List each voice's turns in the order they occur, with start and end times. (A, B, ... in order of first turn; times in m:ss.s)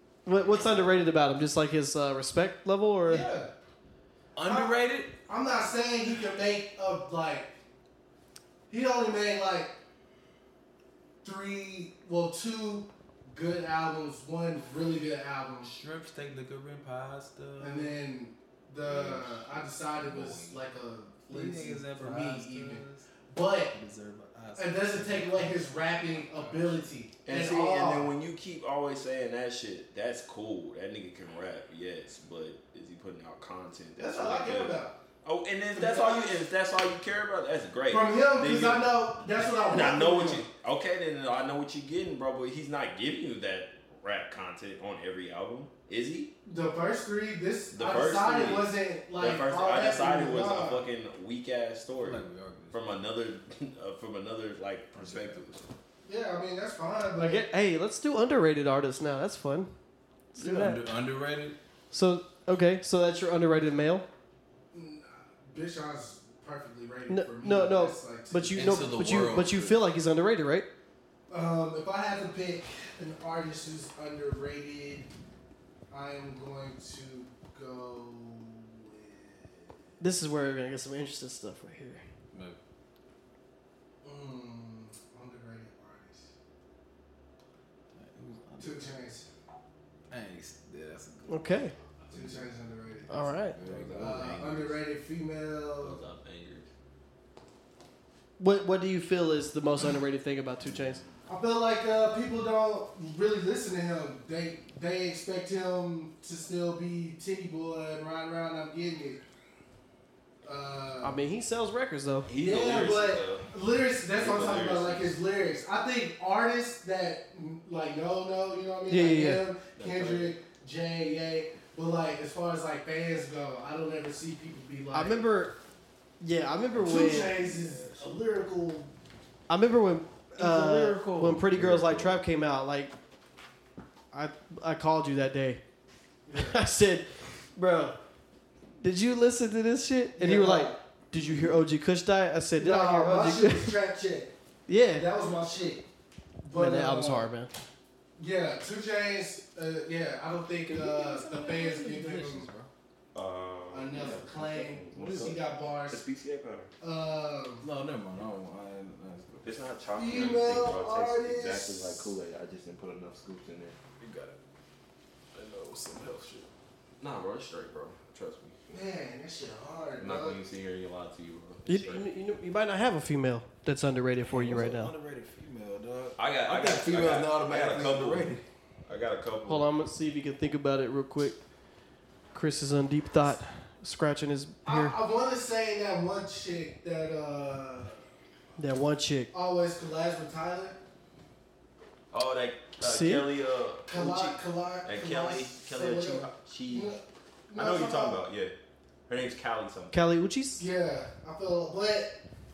0:00.2-0:03.2 A
0:00.3-0:00.9 B
0:03.0-0:03.5 C
0:04.4-0:05.1 D
0:04.4-0:07.5 C
0:08.7-0:09.7 C
0:11.2-0:15.7 C
0:15.6-0:17.9 D
0:17.6-0:23.8 C
0:18.8-0:20.6 D
0:21.3-0:23.1 D
0:23.7-0:26.8 D
0:24.6-0:28.1 C
0:27.2-0:46.3 B
0:34.0-0:34.9 C
0:35.7-0:36.4 C
0:37.9-0:40.4 C
0:46.4-0:50.8 C
0:47.7-0:55.7 B
0:52.0-0:52.8 D
0:55.0-0:55.4 D
0:56.0-0:57.4 C
0:57.2-0:59.7 A
1:00.3-1:00.8 A
1:00.4-1:01.6 D
1:01.9-1:04.0 A
1:04.7-1:09.0 C
1:07.1-1:10.7 A
1:08.5-1:09.8 D
1:11.3-1:15.1 C
1:15.9-1:19.7 C
1:20.0-1:22.0 A
1:22.3-1:22.6 D
1:24.0-1:26.3 C
1:27.9-1:28.9 D
1:28.6-1:29.3 C
1:30.1-1:31.6 D
1:31.3-1:31.7 A
1:32.1-1:32.5 D
1:32.1-1:33.4 C
1:33.1-1:33.6 A
1:33.5-1:34.6 D
1:33.6-1:34.8 B
1:33.9-1:36.0 C
1:35.8-1:36.7 B
1:38.4-1:41.0 A
1:40.7-1:41.1 D
1:41.3-1:49.2 C
1:50.4-1:51.2 C
1:51.0-1:52.3 A
1:52.3-1:53.5 B
1:52.4-2:05.2 C
1:54.1-1:55.1 B
1:58.9-1:59.5 A
1:59.8-2:00.3 B
2:04.9-2:05.6 A
2:06.2-2:07.3 A
2:06.7-2:08.9 C
2:07.1-2:08.1 B
2:09.5-2:12.9 A
2:10.4-2:12.2 D
2:14.1-2:15.6 A
2:16.2-2:16.6 C
2:16.4-2:18.0 A
2:18.8-2:23.7 A
2:20.2-2:20.8 C
2:22.6-2:24.3 C
2:24.7-2:25.1 A
2:24.9-2:25.8 C
2:26.4-2:27.3 C
2:26.5-2:27.5 A
2:28.2-2:32.5 C
2:30.6-2:32.7 D
2:33.1-2:36.7 B
2:33.7-2:36.0 C
2:34.9-2:35.4 D
2:36.8-2:37.6 C
2:37.6-2:39.5 D
2:39.4-2:43.8 B
2:40.0-2:42.0 C
2:44.0-2:44.4 D
2:45.3-2:46.5 D
2:47.0-2:48.5 B
2:48.7-2:50.4 C
2:50.0-2:52.1 B
2:51.6-2:54.9 A
2:54.2-2:58.4 D
2:56.2-2:58.4 B
2:58.9-2:59.7 B
2:59.4-3:01.4 A
3:02.3-3:04.9 A
3:04.6-3:08.0 C
3:08.6-3:09.3 A
3:09.3-3:10.8 C
3:12.1-3:16.9 B
3:12.8-3:13.2 A
3:13.9-3:18.2 C
3:17.6-3:18.5 B
3:19.1-3:19.9 B
3:19.9-3:20.6 A
3:20.6-3:22.2 C